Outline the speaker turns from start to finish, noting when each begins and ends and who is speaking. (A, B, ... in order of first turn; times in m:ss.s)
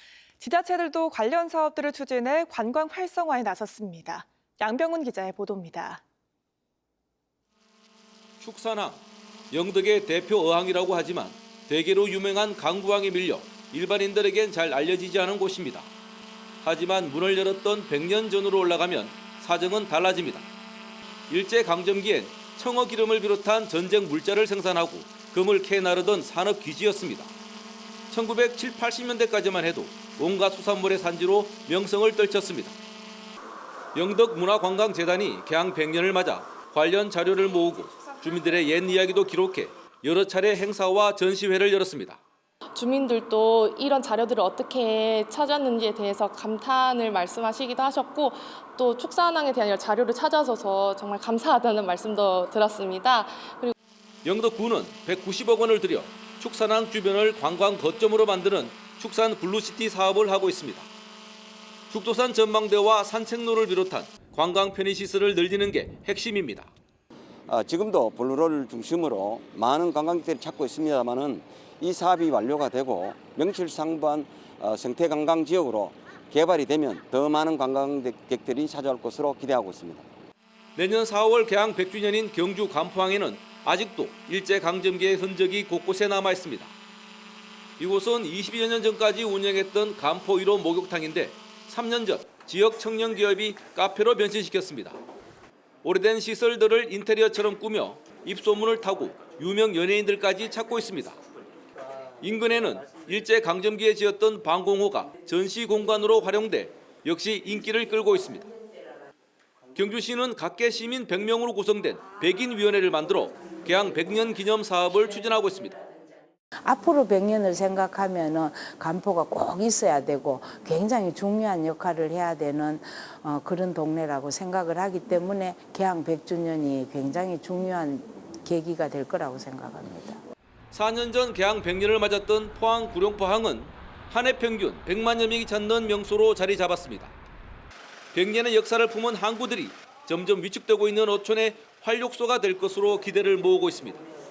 0:00.4-0:06.0 A
0:08.4-0:15.9 B
0:16.6-0:20.5 B
0:21.3-0:27.3 B
0:28.1-0:32.7 B
0:33.9-0:42.2 B
0:42.7-0:53.7 C
0:54.2-1:00.9 B
1:01.9-1:06.7 B
1:07.5-1:20.0 D
1:20.8-1:26.7 B
1:27.8-1:35.0 B
1:35.8-1:41.2 B
1:42.2-1:48.5 B
1:49.7-1:55.8 B
1:56.6-2:10.2 E
2:10.7-2:17.1 B
2:18.1-2:24.0 B